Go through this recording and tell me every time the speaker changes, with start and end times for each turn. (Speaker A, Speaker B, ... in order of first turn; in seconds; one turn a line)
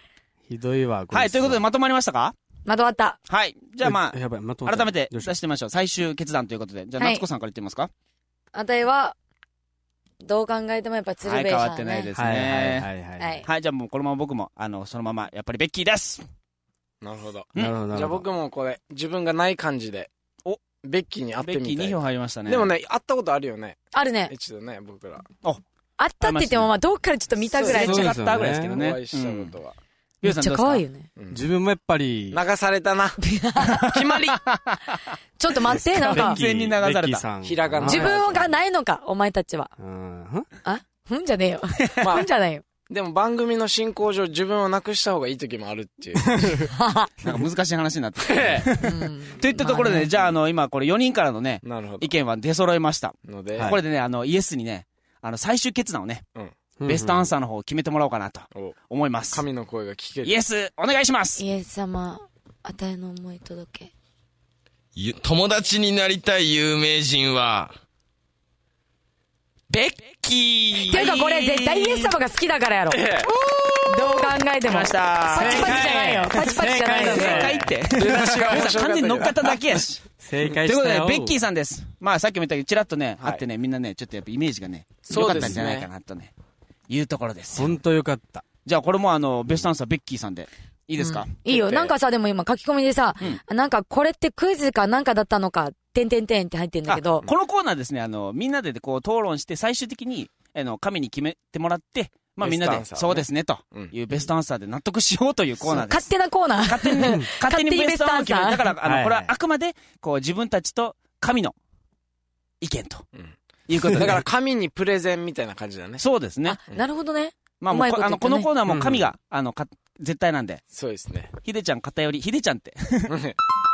Speaker A: 0.5-1.6
Speaker B: 1.1-2.4
Speaker C: 2.7-3.2
Speaker B: 3.3-7.9
Speaker A: 3.8-5.3
Speaker C: 7.0-7.2
Speaker C: 8.5-9.2
Speaker C: 10.2-12.1
Speaker B: 11.2-12.9
Speaker A: 12.2-13.4
Speaker C: 13.2-13.4
Speaker B: 13.4-16.2
Speaker D: 17.0-20.1
Speaker A: 17.6-18.3
Speaker D: 20.8-25.3
Speaker B: 21.4-22.7
Speaker C: 23.9-24.3
Speaker C: 26.0-28.1
Speaker B: 26.2-26.7
Speaker D: 27.6-28.0
Speaker B: 27.6-29.5
Speaker A: 27.7-28.8
Speaker D: 28.7-29.8
Speaker B: 30.2-30.9
Speaker C: 30.2-31.1
Speaker D: 31.2-31.4
Speaker A: 31.3-32.4
Speaker D: 32.3-33.2
Speaker C: 33.2-34.0
Speaker D: 33.8-34.4
Speaker B: 34.3-35.0
Speaker C: 35.4-36.4
Speaker A: 35.8-38.3
Speaker B: 35.9-37.3
Speaker D: 37.4-38.5
Speaker C: 37.8-39.7
Speaker A: 39.8-40.5
Speaker C: 40.6-42.6
Speaker D: 42.0-42.3
Speaker D: 42.9-46.6
Speaker A: 46.3-46.7
Speaker C: 46.8-47.1
Speaker B: 47.2-56.2
Speaker D: 48.2-48.7
Speaker C: 48.8-50.1
Speaker D: 51.6-52.1
Speaker D: 53.3-53.8
Speaker A: 56.8-57.3
Speaker B: 56.9-59.5
Speaker D: 59.3-60.4
Speaker B: 60.2-61.4
Speaker C: 61.4-63.9
Speaker E: 65.0-67.7
Speaker E: 69.7-71.0
Speaker B: 70.7-72.1
Speaker C: 70.9-73.0
Speaker D: 72.9-73.3
Speaker C: 73.8-77.5
Speaker B: 74.6-76.1
Speaker A: 75.3-78.7
Speaker B: 76.9-86.3
Speaker D: 77.9-79.5
Speaker A: 80.2-81.3
Speaker D: 85.1-85.9
Speaker A: 85.3-85.6
Speaker B: 86.9-87.8
Speaker A: 87.5-88.4
Speaker B: 88.7-91.3
Speaker C: 91.0-97.2
Speaker D: 91.5-91.9
Speaker B: 96.9-106.1
Speaker D: 102.4-103.9
Speaker C: 105.7-108.7
Speaker B: 106.6-111.5
Speaker A: 108.8-109.3
Speaker B: 112.6-113.1
Speaker B: 113.7-114.2
Speaker D: 113.9-116.0
Speaker B: 116.0-116.6
Speaker C: 116.5-118.5
Speaker B: 117.6-120.6
Speaker A: 118.7-119.1
Speaker D: 120.7-121.3
Speaker B: 121.4-123.2
Speaker D: 123.1-123.4